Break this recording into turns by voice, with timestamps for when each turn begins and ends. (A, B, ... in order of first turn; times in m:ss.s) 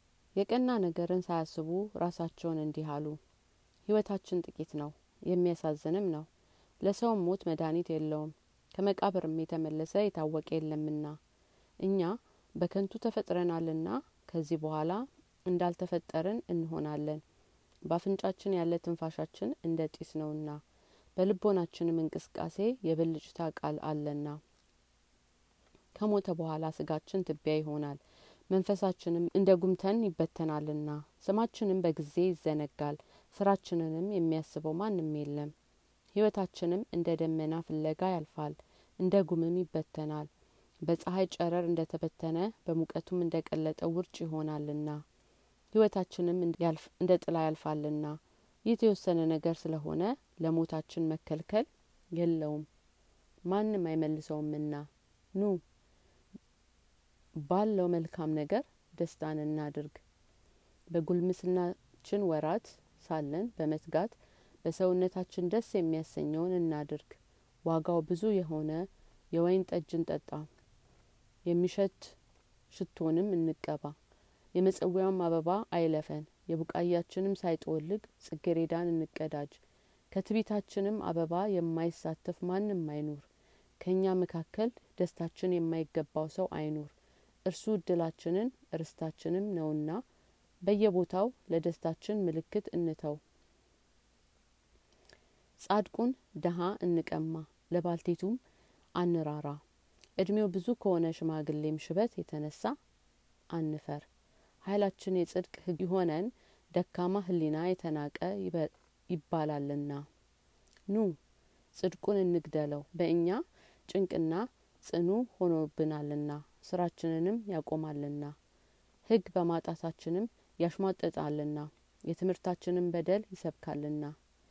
0:00.4-0:03.2 A
0:03.9-0:06.3 A
0:06.8-0:11.2 A
0:11.8-0:17.2 A
0:17.9-0:20.6 A
0:21.2-0:24.4 A
0:26.0-0:28.0 A
0:28.5-0:35.5 A
0:36.1-0:40.3 A
0:40.9-0:45.0 A
0:45.7-0:52.7 A
0:53.5-0:55.6 A
0:57.4-1:00.0 A
1:00.9-1:10.5 A
1:11.5-1:12.2 A
1:12.7-1:13.9 A
1:14.5-1:19.6 A
1:20.1-1:23.3 A
1:23.8-1:26.9 A
1:27.5-1:30.0 A
1:30.6-1:33.2 A
1:35.6-1:38.4 A
1:39.0-1:39.6 A
1:40.2-1:42.7 A
1:43.5-1:44.1 A
1:44.6-1:50.0 A
1:50.9-1:51.2 A
1:51.8-1:58.3 A
1:59.1-2:04.1 A